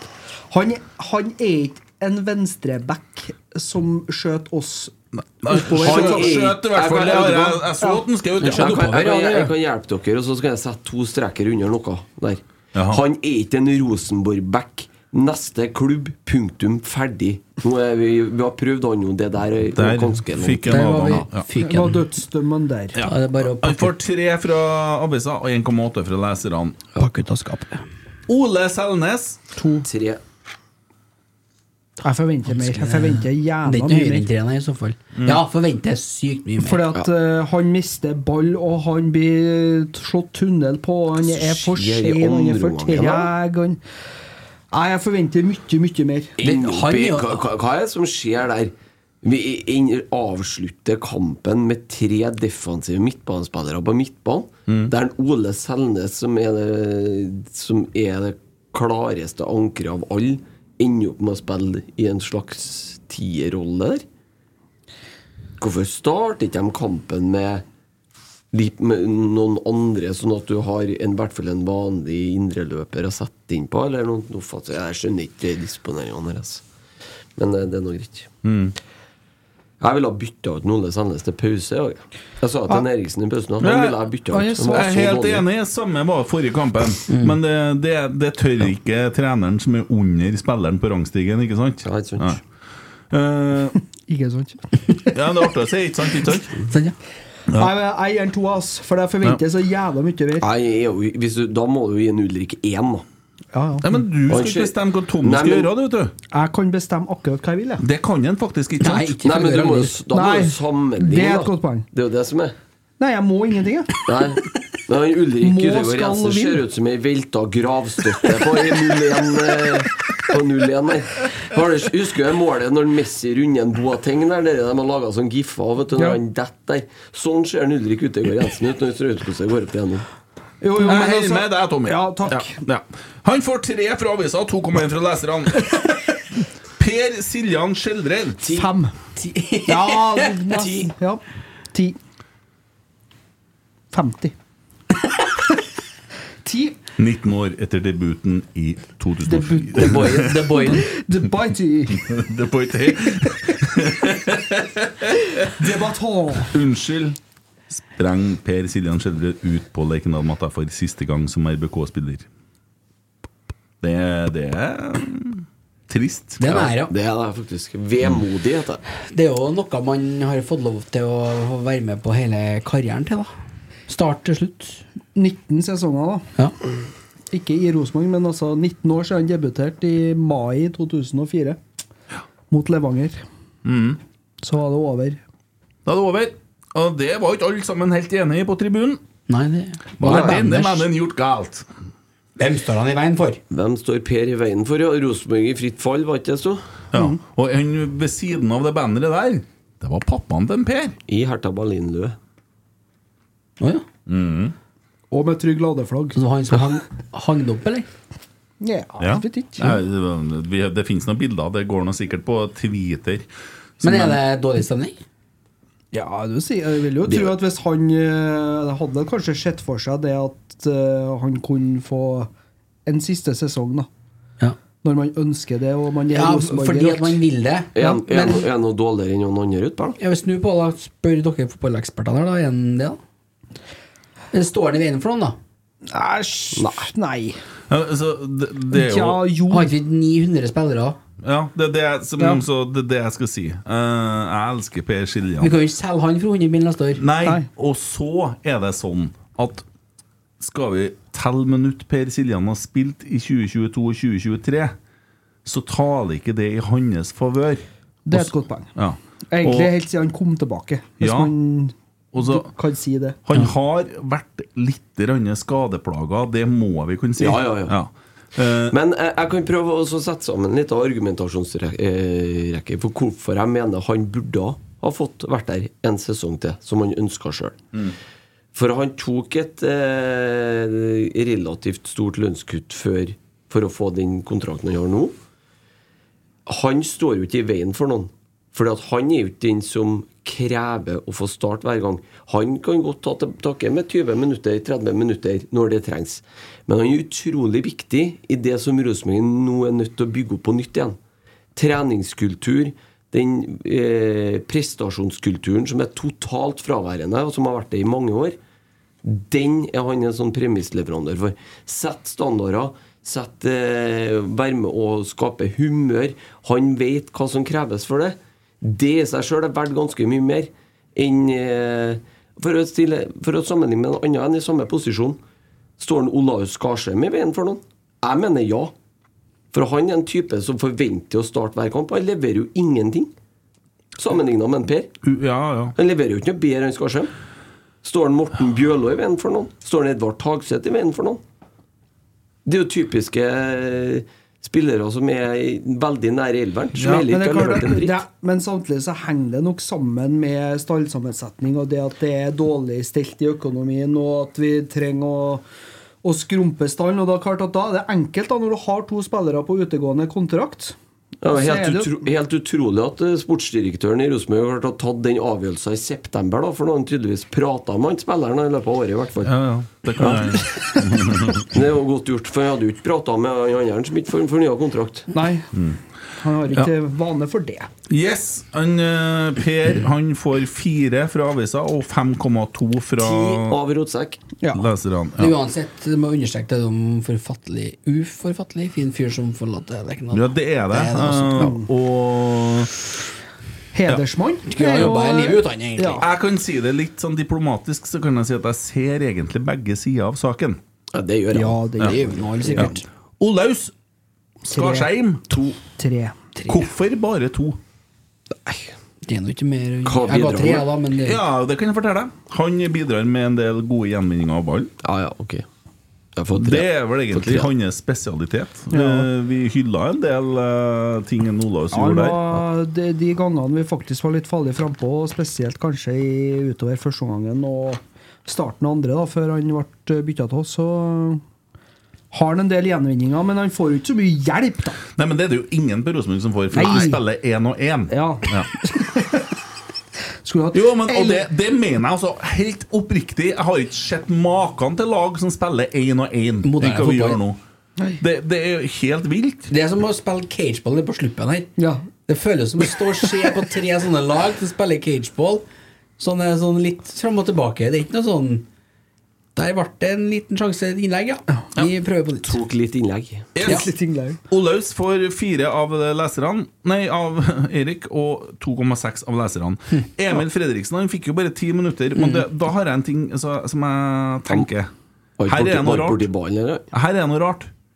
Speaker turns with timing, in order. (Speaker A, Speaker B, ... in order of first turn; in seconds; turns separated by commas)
Speaker A: 0.5-4.9, Speaker B: 5.2-9.0, Speaker A: 5.5-6.6, Speaker C: 5.7-7.7, Speaker D: 8.4-9.5, Speaker C: 8.4-21.2, Speaker B: 12.7-13.0, Speaker B: 19.8-21.5, Speaker D: 20.7-22.0, Speaker A: 21.6-23.0, Speaker B: 22.9-26.8, Speaker D: 23.0-23.9, Speaker D: 26.9-27.8, Speaker B: 28.3-29.4, Speaker A: 29.6-29.9, Speaker C: 29.8-30.2, Speaker A: 32.0-34.3, Speaker D: 32.6-36.9, Speaker B: 35.1-35.4, Speaker A: 36.6-43.8, Speaker C: 41.2-43.3, Speaker A: 44.7-46.4, Speaker C: 46.4-48.7, Speaker D: 46.4-47.5, Speaker C: 49.2-64.0, Speaker C: 65.6-67.6, Speaker C: 68.5-76.6, Speaker C: 77.4-78.3, Speaker B: 78.4-78.7, Speaker C: 79.8-85.4, Speaker B: 83.6-84.0, Speaker A: 84.3-85.1, Speaker B: 84.7-92.4, Speaker D: 87.1-87.3, Speaker C: 91.8-92.3, Speaker B: 93.1-93.8, Speaker A: 94.1-94.6, Speaker B: 95.1-96.5, Speaker D: 96.7-97.0, Speaker A: 97.5-100.5, Speaker C: 100.4-103.0, Speaker A: 103.5-103.9, Speaker B: 103.8-106.1, Speaker C: 104.3-105.7, Speaker A: 106.3-107.8, Speaker B: 107.8-109.2, Speaker D: 108.8-110.0, Speaker C: 109.2-112.5, Speaker A: 110.1-111.9, Speaker A: 113.0-114.0, Speaker C: 114.0-130.1, Speaker A: 115.4-116.6, Speaker A: 130.6-132.6, Speaker B: 130.8-135.7, Speaker B: 136.8-138.4, Speaker A: 138.5-138.9, Speaker D: 139.2-140.5, Speaker A: 139.7-141.2, Speaker C: 140.6-140.9, Speaker A: 143.9-144.3, Speaker A: 146.4-146.8, Speaker B: 147.0-150.6, Speaker A: 149.2-150.1, Speaker D: 149.7-150.9, Speaker A: 150.8-152.0, Speaker B: 151.9-155.8, Speaker A: 155.6-156.5, Speaker B: 156.5-157.2, Speaker B: 157.9-162.3, Speaker B: 163.8-166.7, Speaker D: 166.4-166.9, Speaker C: 166.9-168.8, Speaker D: 169.1-173.3, Speaker D: 173.9-174.8, Speaker A: 175.1-176.3, Speaker A: 177.3-181.6, Speaker A: 182.5-183.2, Speaker B: 183.6-184.0, Speaker A: 184.4-185.2, Speaker B: 185.8-189.0, Speaker D: 189.3-190.9, Speaker B: 190.0-191.7, Speaker D: 192.4-193.4, Speaker C: 193.5-196.6, Speaker B: 196.9-201.0, Speaker C: 201.1-202.2, Speaker D: 203.6-203.8, Speaker B: 204.1-204.5, Speaker A: 205.1-206.2, Speaker D: 206.1-207.8, Speaker A: 208.6-209.7, Speaker B: 209.0-213.3, Speaker B: 213.8-214.2, Speaker D: 213.8-214.9, Speaker A: 215.9-222.3, Speaker C: 217.1-217.3, Speaker A: 222.8-223.9, Speaker A: 224.8-227.2, Speaker D: 226.1-228.4, Speaker C: 227.7-230.0, Speaker D: 230.0-233.0, Speaker D: 234.3-235.4, Speaker A: 235.9-237.4, Speaker C: 236.5-236.9, Speaker B: 237.7-239.2, Speaker A: 238.7-239.7, Speaker D: 239.5-241.0, Speaker B: 241.2-245.5, Speaker D: 245.4-247.0, Speaker B: 247.0-249.6, Speaker B: 250.4-254.7, Speaker B: 255.4-259.8, Speaker A: 258.1-258.7, Speaker A: 259.3-263.2, Speaker B: 261.0-261.3, Speaker B: 262.1-262.5, Speaker B: 263.2-268.8, Speaker C: 267.2-267.7, Speaker C: 268.7-277.6, Speaker C: 278.5-285.1, Speaker C: 286.5-301.0, Speaker C: 301.5-308.4, Speaker C: 309.0-325.2, Speaker C: 325.8-328.7, Speaker C: 329.5-333.1, Speaker C: 334.0-334.9, Speaker B: 335.0-335.7, Speaker C: 335.8-337.1, Speaker C: 337.8-341.2, Speaker C: 342.4-348.0, Speaker B: 346.8-347.0, Speaker A: 347.1-355.4, Speaker A: 356.0-361.9, Speaker C: 361.2-369.3, Speaker B: 369.2-371.5, Speaker C: 371.5-375.1, Speaker A: 375.1-375.5, Speaker B: 375.5-375.8, Speaker A: 376.2-377.7, Speaker B: 377.9-383.6, Speaker C: 383.0-384.2, Speaker B: 384.5-385.3, Speaker D: 385.2-391.5, Speaker B: 390.1-392.7, Speaker A: 391.4-391.7, Speaker A: 393.7-396.0, Speaker D: 394.5-396.0, Speaker B: 396.0-400.6, Speaker C: 400.9-402.1, Speaker A: 401.3-402.8, Speaker D: 401.8-402.8, Speaker B: 403.2-403.7, Speaker B: 404.4-405.2, Speaker A: 404.5-404.9, Speaker A: 405.8-406.3, Speaker B: 406.5-407.6, Speaker C: 408.4-408.7, Speaker D: 409.0-411.2, Speaker C: 409.8-410.7, Speaker B: 411.0-414.7, Speaker C: 414.8-415.4, Speaker C: 416.1-417.5, Speaker B: 416.3-422.2, Speaker A: 418.7-419.1, Speaker A: 421.7-431.2, Speaker A: 432.1-434.8, Speaker B: 434.9-438.5, Speaker A: 436.5-437.0, Speaker A: 437.9-439.3, Speaker A: 440.2-441.2, Speaker B: 440.5-447.4, Speaker D: 446.4-447.2, Speaker B: 448.0-449.5, Speaker D: 449.5-451.5, Speaker A: 451.6-451.8, Speaker D: 452.1-455.4, Speaker D: 456.0-458.4, Speaker D: 459.4-462.3, Speaker C: 462.2-463.3, Speaker B: 463.3-463.7, Speaker A: 463.4-464.2, Speaker B: 464.3-474.7, Speaker D: 471.9-472.2, Speaker C: 475.2-476.7, Speaker B: 475.3-476.1, Speaker B: 476.7-477.5